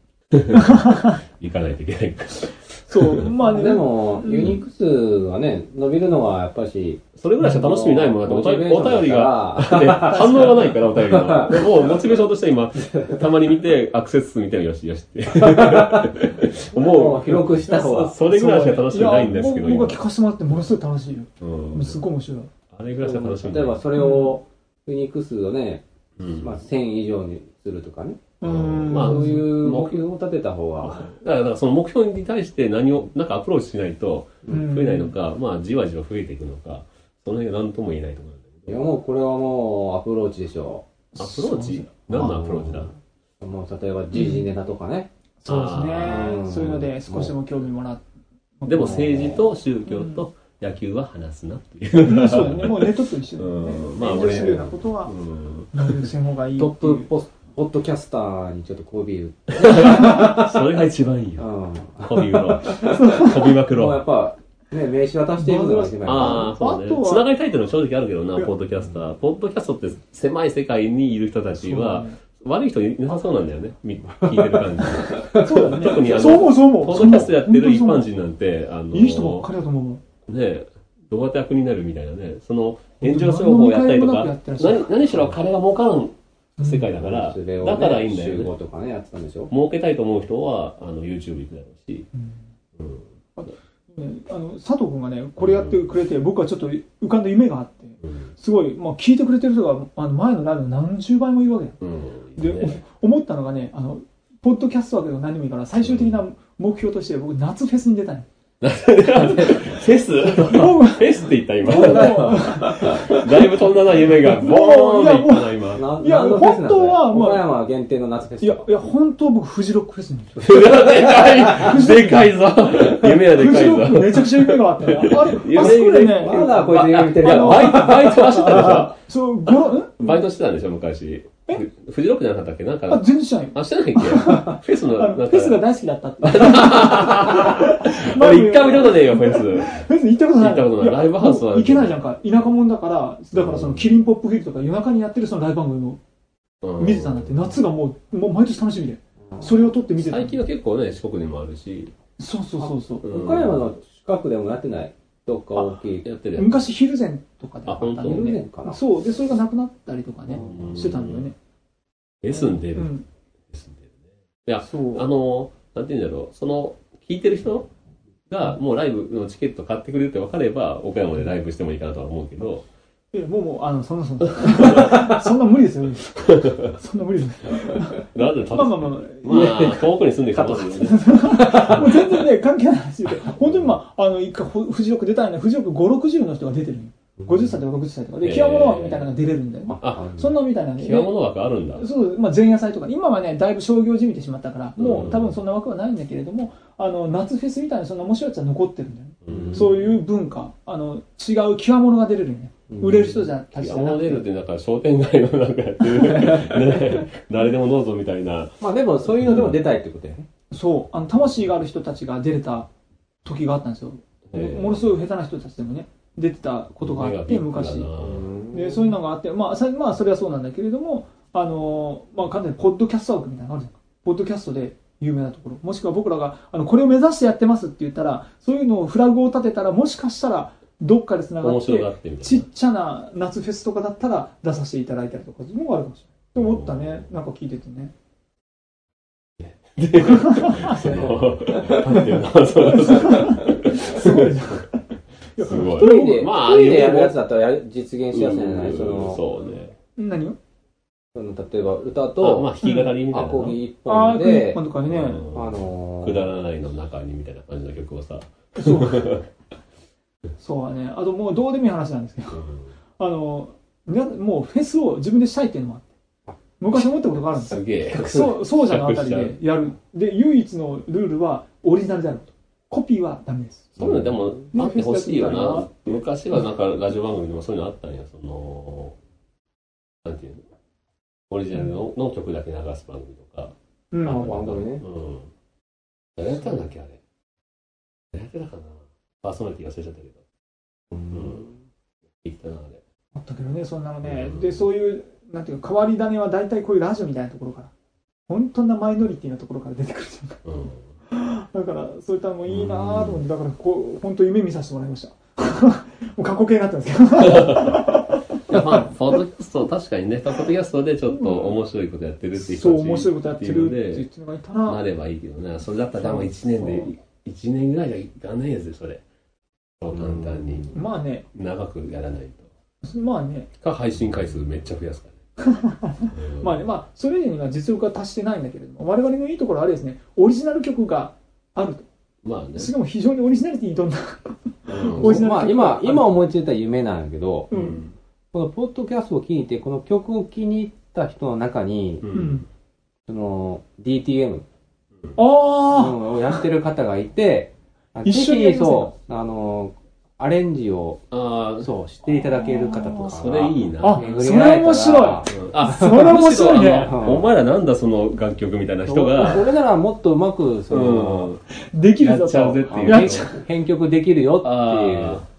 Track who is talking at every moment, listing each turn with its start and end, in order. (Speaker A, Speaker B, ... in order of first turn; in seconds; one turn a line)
Speaker A: 0.3-0.8
Speaker B: 0.5-1.2
Speaker A: 1.4-3.3
Speaker B: 2.9-4.6
Speaker C: 3.4-11.9
Speaker A: 7.2-20.0
Speaker B: 10.3-10.6
Speaker C: 15.3-16.2
Speaker C: 16.7-18.2
Speaker B: 17.7-22.5
Speaker A: 21.4-22.0
Speaker A: 22.7-23.9
Speaker C: 23.0-25.8
Speaker B: 23.9-24.4
Speaker A: 26.2-26.6
Speaker C: 26.4-28.3
Speaker B: 28.4-29.4
Speaker A: 28.4-30.0
Speaker C: 28.9-31.1
Speaker A: 30.8-38.8
Speaker B: 34.5-35.1
Speaker C: 38.7-40.8
Speaker B: 41.1-42.4
Speaker A: 41.2-42.9
Speaker C: 42.1-45.1
Speaker B: 44.1-44.5
Speaker B: 45.4-48.0
Speaker A: 45.5-46.3
Speaker C: 46.0-47.3
Speaker B: 48.6-49.3
Speaker A: 48.6-56.0
Speaker C: 48.8-49.4
Speaker B: 49.9-50.2
Speaker B: 52.0-55.1
Speaker B: 55.7-57.1
Speaker C: 56.6-60.7
Speaker A: 59.5-61.5
Speaker C: 61.4-66.5
Speaker A: 62.0-64.0
Speaker B: 63.0-63.3
Speaker B: 65.4-67.2
Speaker A: 66.0-79.5
Speaker B: 71.6-72.1
Speaker C: 74.2-75.4
Speaker B: 75.3-78.1
Speaker B: 78.9-80.0
Speaker A: 80.3-88.5
Speaker B: 83.0-84.9
Speaker B: 86.6-86.9
Speaker C: 87.0-89.5
Speaker A: 89.5-92.1
Speaker A: 92.8-93.0
Speaker B: 93.4-101.8
Speaker A: 95.4-95.8
Speaker A: 98.0-98.3
Speaker A: 101.8-102.8
Speaker B: 102.4-108.2
Speaker A: 105.8-106.2
Speaker A: 108.6-115.8
Speaker B: 110.2-117.5
Speaker C: 111.8-112.9
Speaker C: 115.7-118.7
Speaker B: 118.4-120.5
Speaker A: 120.4-129.0
Speaker C: 120.5-121.7
Speaker B: 121.4-122.3
Speaker B: 122.9-130.2
Speaker C: 125.6-128.8
Speaker A: 130.0-135.6
Speaker B: 132.9-146.0
Speaker A: 136.2-139.8
Speaker A: 140.4-141.9
Speaker A: 143.3-143.9
Speaker A: 146.6-147.4
Speaker B: 146.8-150.4
Speaker A: 150.0-151.9
Speaker B: 152.2-153.0
Speaker C: 152.6-156.1
Speaker A: 153.0-153.6
Speaker A: 156.0-156.6
Speaker B: 156.3-161.3
Speaker A: 157.7-158.3
Speaker C: 157.8-158.8
Speaker C: 160.3-160.7
Speaker A: 160.4-161.3
Speaker A: 162.2-162.9
Speaker B: 162.3-163.0
Speaker A: 163.5-163.9
Speaker A: 164.4-167.7
Speaker B: 164.7-165.1
Speaker A: 168.3-172.6
Speaker B: 173.1-179.8
Speaker A: 174.6-174.9
Speaker A: 176.3-176.7
Speaker A: 178.1-181.1
Speaker C: 179.3-179.8
Speaker B: 180.5-191.1
Speaker C: 181.3-181.9
Speaker C: 187.2-187.5
Speaker A: 188.2-189.1
Speaker C: 189.7-190.3
Speaker A: 189.8-190.1
Speaker A: 190.8-191.9
Speaker B: 191.8-204.2
Speaker A: 194.8-195.3
Speaker A: 199.2-199.7
Speaker C: 199.3-199.7
Speaker C: 202.7-203.2
Speaker A: 203.5-209.6
Speaker C: 208.6-210.3
Speaker B: 210.5-212.7
Speaker B: 213.2-217.9
Speaker A: 214.3-214.9
Speaker A: 216.8-218.3
Speaker C: 218.0-218.9
Speaker B: 218.5-237.9
Speaker A: 231.4-232.4
Speaker A: 236.3-237.1
Speaker A: 239.4-244.6
Speaker B: 240.1-240.9
Speaker B: 242.7-244.8
Speaker B: 245.4-246.3
Speaker A: 245.4-247.2
Speaker C: 245.6-249.2
Speaker A: 248.1-249.7
Speaker B: 250.0-250.4
Speaker C: 251.1-252.6
Speaker A: 252.2-253.6
Speaker B: 252.6-252.9
Speaker C: 253.1-254.6
Speaker B: 253.9-255.2
Speaker A: 254.9-259.3
Speaker C: 255.3-256.3
Speaker B: 258.6-259.1
Speaker B: 260.4-262.4
Speaker A: 262.3-262.6
Speaker B: 263.0-265.9
Speaker B: 266.6-274.0
Speaker A: 267.4-269.4
Speaker A: 273.8-278.9
Speaker B: 274.5-275.8
Speaker A: 280.0-280.4
Speaker A: 281.3-283.5
Speaker B: 283.9-284.3
Speaker A: 284.1-285.3
Speaker C: 284.1-284.8
Speaker A: 286.2-287.0
Speaker A: 288.1-290.2
Speaker C: 290.9-291.4
Speaker A: 291.1-291.5
Speaker A: 292.2-292.8
Speaker B: 293.1-297.7
Speaker A: 294.0-294.6
Speaker B: 298.3-300.4
Speaker A: 300.4-300.8
Speaker B: 301.1-309.2
Speaker A: 302.5-303.2
Speaker A: 307.2-307.8
Speaker A: 308.5-314.0
Speaker B: 311.1-311.5
Speaker B: 312.4-314.8
Speaker A: 314.6-319.0
Speaker B: 316.0-316.9
Speaker A: 319.8-320.8
Speaker C: 320.1-320.6
Speaker B: 320.7-321.2
Speaker A: 321.3-322.5
Speaker B: 322.9-323.5
Speaker A: 323.6-325.2
Speaker B: 325.4-331.9
Speaker A: 326.1-326.6
Speaker A: 332.2-332.7
Speaker B: 332.6-336.1
Speaker A: 334.7-335.2
Speaker C: 334.9-337.5
Speaker B: 337.5-337.8
Speaker A: 337.5-337.9
Speaker C: 338.3-342.1
Speaker A: 342.0-342.4
Speaker B: 342.1-342.4
Speaker C: 343.1-344.4
Speaker B: 345.1-346.0
Speaker C: 345.7-355.3
Speaker B: 348.0-348.9
Speaker A: 351.1-351.7
Speaker B: 352.3-353.1
Speaker A: 353.1-354.1
Speaker B: 353.8-356.9
Speaker A: 355.3-359.5
Speaker C: 356.8-357.3
Speaker C: 358.8-361.3
Speaker A: 360.7-361.4
Speaker B: 361.7-363.4
Speaker A: 362.0-363.3
Speaker C: 362.7-365.2
Speaker A: 364.4-365.3